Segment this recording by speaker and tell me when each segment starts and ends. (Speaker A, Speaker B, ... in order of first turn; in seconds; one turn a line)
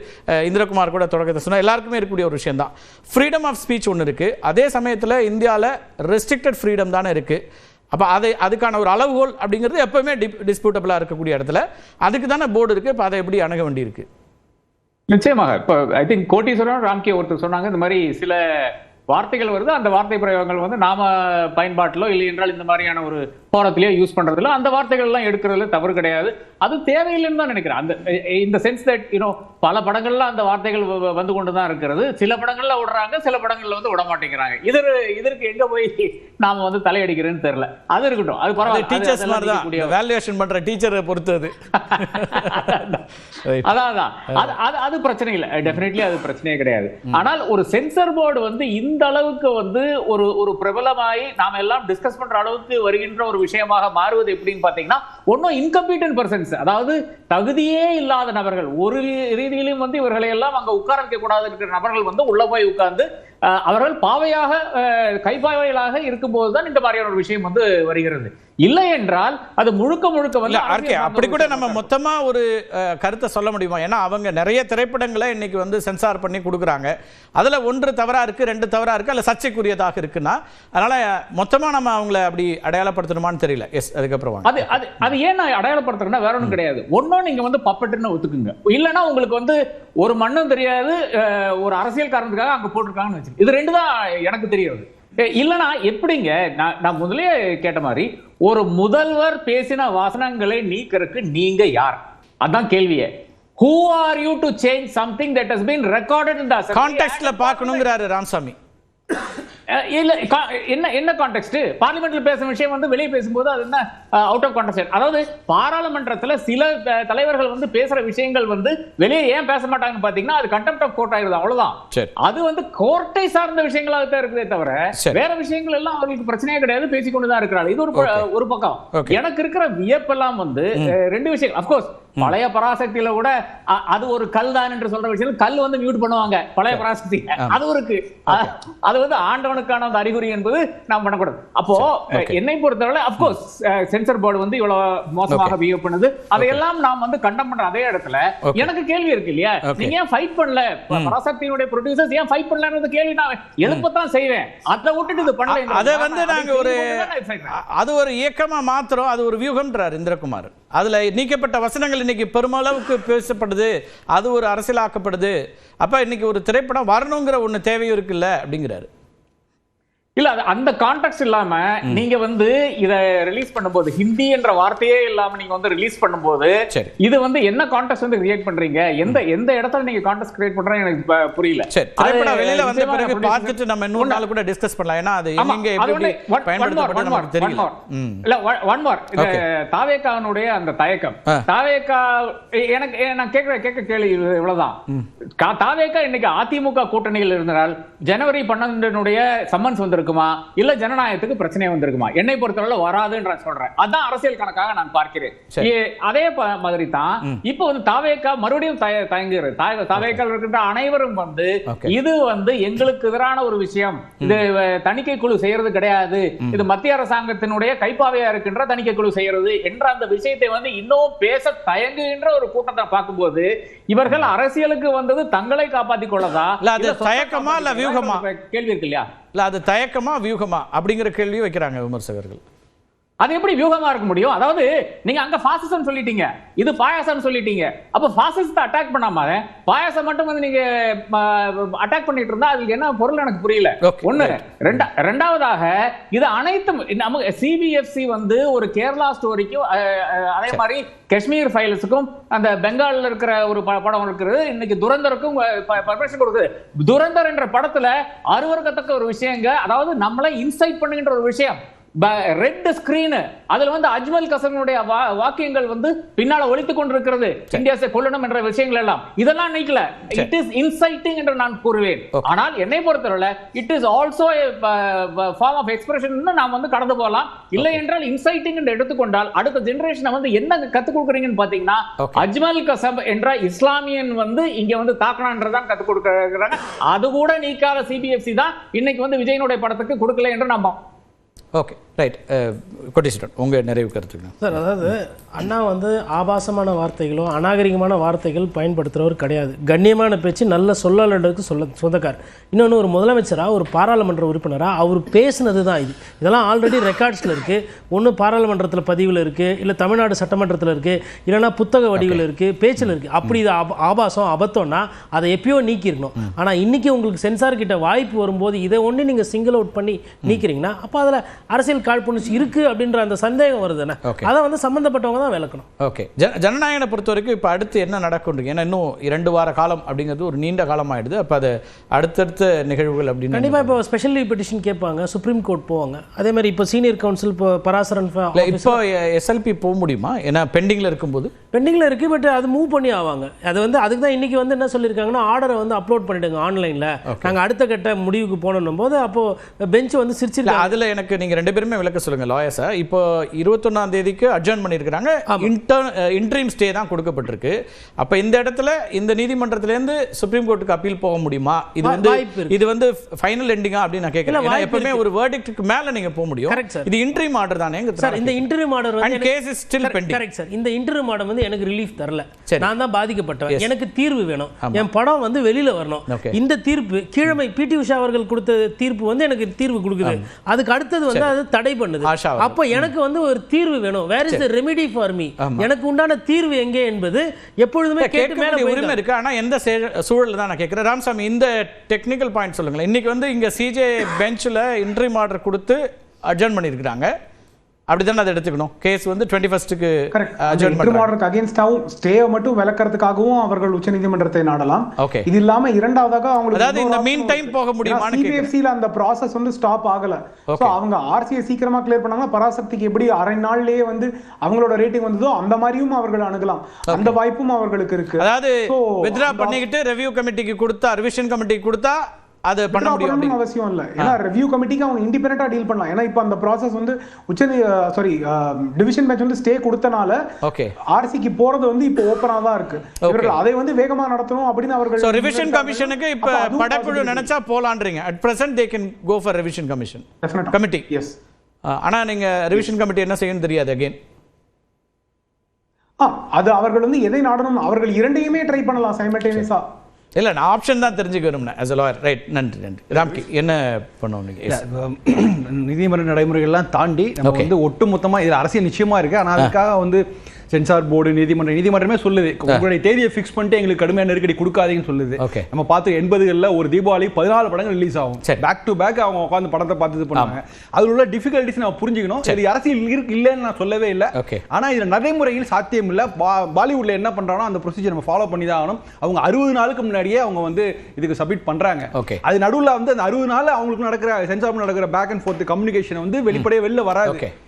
Speaker A: 0.4-7.4
Speaker A: 7.9-14.1
Speaker B: 15.1-40.0
Speaker A: 38.6-42.7
Speaker B: 41.8-43.0
Speaker A: 43.5-43.7
Speaker B: 43.6-71.9
Speaker A: 70.5-85.1
Speaker B: 84.5-103.1
Speaker B: 103.6-107.8
Speaker A: 106.7-108.5
Speaker B: 109.7-157.6
Speaker A: 128.0-128.3
Speaker A: 128.9-129.2
Speaker A: 141.8-142.4
Speaker A: 145.3-145.6
Speaker A: 146.4-146.6
Speaker A: 149.7-149.9
Speaker A: 155.5-168.9
Speaker B: 170.2-184.2
Speaker A: 181.7-188.2
Speaker B: 185.4-194.8
Speaker A: 189.2-189.4
Speaker B: 195.4-229.1
Speaker A: 211.7-211.9
Speaker A: 226.6-228.2
Speaker A: 229.3-232.4
Speaker B: 233.2-290.8
Speaker A: 243.8-244.8
Speaker A: 282.0-282.3
Speaker A: 291.6-294.6
Speaker C: 294.4-325.7
Speaker A: 312.0-312.2
Speaker A: 312.8-313.4
Speaker A: 325.8-333.8
Speaker C: 333.3-338.8
Speaker A: 338.3-341.3
Speaker C: 341.5-350.8
Speaker A: 347.1-347.4
Speaker A: 350.4-368.5
Speaker C: 361.8-362.6
Speaker C: 364.3-365.1
Speaker C: 366.5-366.9
Speaker C: 368.0-389.0
Speaker A: 369.0-370.2
Speaker A: 372.5-372.7
Speaker A: 374.6-374.9
Speaker A: 376.1-376.4
Speaker A: 382.0-382.9
Speaker A: 385.4-385.7
Speaker A: 388.0-397.1
Speaker A: 397.9-401.1
Speaker D: 400.1-419.6
Speaker A: 405.0-405.3
Speaker A: 406.5-408.5
Speaker A: 410.5-410.8
Speaker A: 416.9-417.2
Speaker A: 418.2-423.4
Speaker D: 422.7-430.2
Speaker A: 430.4-430.8
Speaker D: 430.9-437.3
Speaker A: 433.0-433.4
Speaker A: 435.0-440.9
Speaker D: 440.2-441.1
Speaker A: 441.7-444.0
Speaker D: 446.0-449.6
Speaker A: 450.2-454.6
Speaker E: 454.5-487.2
Speaker A: 457.2-457.5
Speaker A: 465.2-465.5
Speaker A: 474.1-474.4
Speaker A: 481.9-482.2
Speaker A: 487.1-487.3